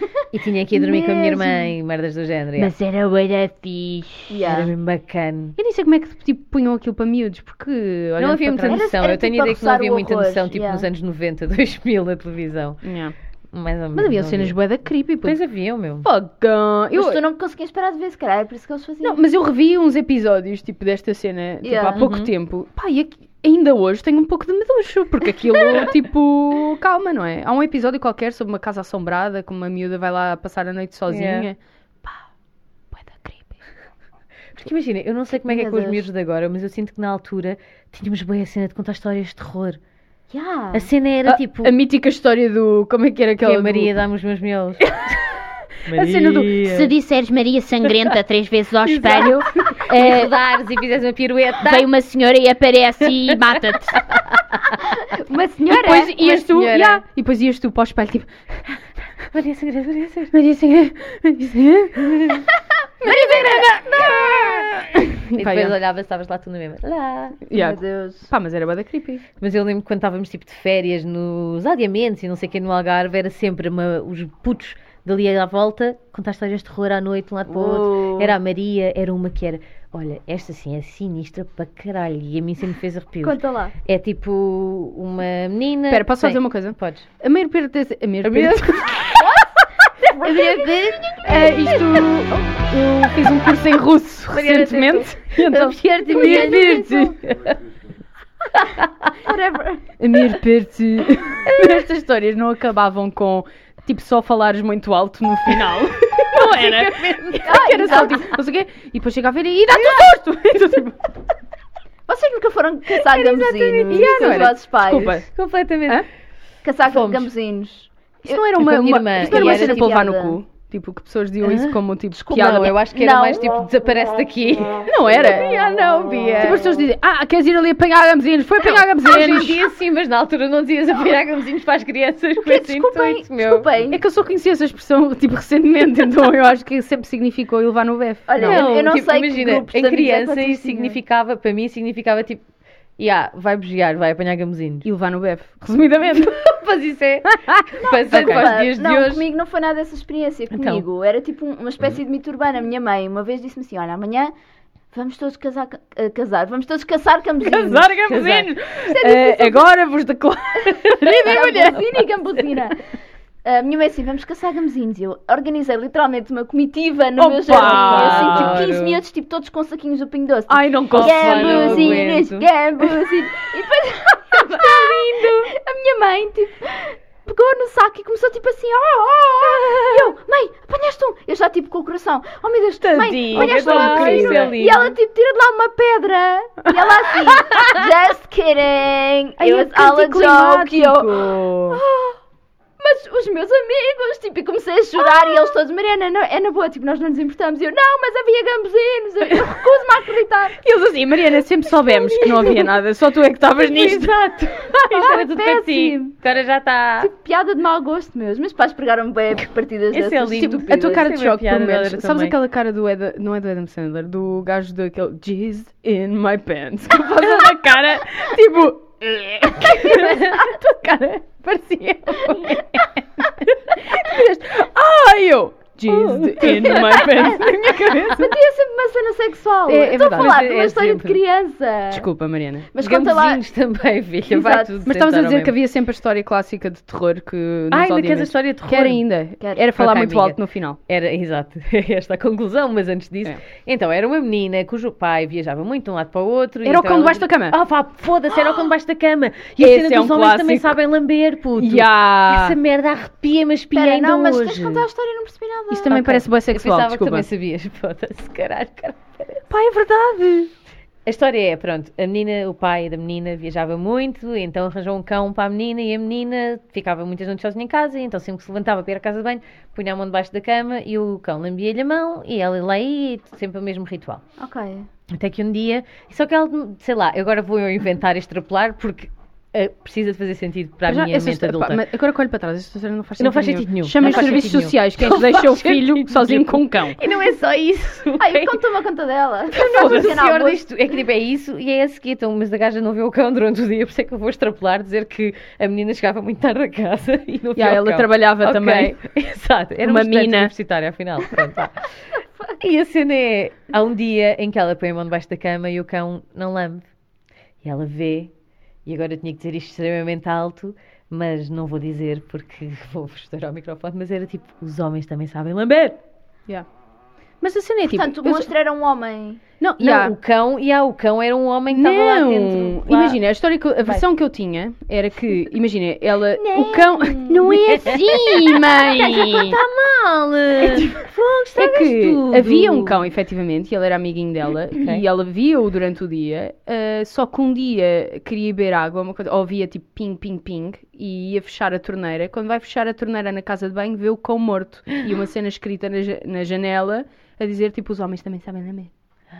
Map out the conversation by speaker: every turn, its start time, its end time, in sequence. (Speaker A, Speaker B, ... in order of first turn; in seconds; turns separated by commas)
Speaker A: 0.3-2.7, Speaker B: 0.7-1.7, Speaker C: 2.6-4.3, Speaker B: 4.3-4.7, Speaker A: 4.4-5.5, Speaker D: 5.6-8.8, Speaker A: 8.2-12.8, Speaker B: 8.7-10.9, Speaker D: 12.8-13.1, Speaker A: 13.5-14.6, Speaker D: 13.9-15.4, Speaker A: 15.2-16.1, Speaker D: 16.0-17.2, Speaker B: 16.9-19.2, Speaker D: 19.0-32.2, Speaker B: 21.6-22.0, Speaker A: 21.9-22.3, Speaker A: 31.1-31.5, Speaker D: 32.9-33.6, Speaker A: 34.5-39.8, Speaker B: 35.4-36.0, Speaker B: 40.3-40.9, Speaker A: 40.7-41.7, Speaker D: 41.2-43.9, Speaker A: 43.4-45.0, Speaker D: 44.9-46.8, Speaker A: 45.9-46.9, Speaker C: 46.6-50.3, Speaker A: 48.8-51.9, Speaker C: 51.6-54.0, Speaker A: 53.3-54.6, Speaker B: 54.8-56.1, Speaker D: 55.7-58.8, Speaker A: 56.2-57.0, Speaker A: 59.3-60.3, Speaker D: 60.3-62.4, Speaker A: 62.0-62.4, Speaker D: 63.0-65.8, Speaker B: 63.0-64.4, Speaker A: 65.3-67.4, Speaker D: 67.5-69.2, Speaker B: 67.5-68.3, Speaker A: 69.4-87.1, Speaker B: 77.5-78.3, Speaker B: 83.2-83.7, Speaker D: 85.9-89.1, Speaker A: 88.2-89.1, Speaker B: 89.1-92.0, Speaker A: 90.2-91.1, Speaker D: 90.3-97.2, Speaker A: 94.3-97.6, Speaker B: 96.0-97.1, Speaker A: 98.6-99.1, Speaker B: 99.2-99.8, Speaker D: 100.0-111.1, Speaker A: 106.3-107.5, Speaker B: 107.4-108.3, Speaker A: 109.8-110.0, Speaker B: 112.1-115.2, Speaker A: 113.1-114.5, Speaker D: 113.8-115.3, Speaker A: 115.3-116.0, Speaker B: 116.6-118.4, Speaker A: 116.8-117.3, Speaker D: 118.2-122.7, Speaker A: 118.5-120.0, Speaker B: 119.1-120.4, Speaker A: 121.4-121.8, Speaker B: 122.1-123.5, Speaker A: 122.3-126.7, Speaker D: 124.9-125.6, Speaker D: 126.4-129.6, Speaker A: 128.6-133.7, Speaker B: 132.4-134.0, Speaker D: 133.9-138.7, Speaker B: 138.3-141.0, Speaker A: 138.4-142.4, Speaker A: 143.0-144.9, Speaker D: 144.8-146.4, Speaker A: 146.3-149.2, Speaker D: 147.3-148.5, Speaker B: 147.9-154.3, Speaker A: 150.5-150.8, Speaker B: 154.9-157.9, Speaker D: 157.4-162.1, Speaker A: 158.1-158.5, Speaker B: 158.8-159.7, Speaker B: 161.0-162.8, Speaker B: 163.4-192.2, Speaker D: 167.2-168.7, Speaker A: 167.5-169.0, Speaker D: 170.5-172.1, Speaker A: 170.9-172.5, Speaker D: 174.3-175.5, Speaker D: 179.6-180.1, Speaker D: 182.8-184.5, Speaker A: 183.2-184.9, Speaker D: 189.4-191.8, Speaker B: 192.8-200.6, Speaker D: 200.6-204.2, Speaker A: 201.9-202.7, Speaker A: 203.7-207.1, Speaker B: 204.8-206.2, Speaker B: 207.0-211.1, Speaker A: 209.9-212.3, Speaker D: 210.4-228.3, Speaker A: 225.9-227.3, Speaker B: 226.7-227.3, Speaker B: 228.1-232.1, Speaker D: 229.7-230.4, Speaker A: 230.1-231.2, Speaker D: 231.9-232.7, Speaker B: 232.7-233.4, Speaker A: 232.8-235.5, Speaker B: 234.3-234.8, Speaker D: 234.8-240.8, Speaker A: 237.7-239.0, Speaker A: 239.7-254.8, Speaker D: 246.6-247.6, Speaker D: 249.6-250.8, Speaker D: 251.5-252.6, Speaker B: 253.7-256.1, Speaker D: 255.7-257.2, Speaker A: 255.9-259.4, Speaker D: 259.5-260.5, Speaker A: 261.1-274.2, Speaker B: 274.4-274.9, Speaker A: 275.1-281.8, Speaker D: 280.9-287.0, Speaker A: 283.2-288.6, Speaker B: 288.2-290.6, Speaker A: 289.5-301.8, Speaker D: 289.7-290.1, Speaker D: 297.6-299.0, Speaker D: 299.8-300.5, Speaker A: 302.6-306.9, Speaker A: 307.6-308.3, Speaker A: 308.9-316.0, Speaker D: 317.4-318.5, Speaker B: 317.8-319.4, Speaker D: 319.6-320.1, Speaker A: 319.8-323.2, Speaker D: 321.7-329.6, Speaker B: 326.4-327.4, Speaker C: 327.4-328.5, Speaker A: 327.5-333.0, Speaker D: 330.6-348.9, Speaker A: 334.8-335.0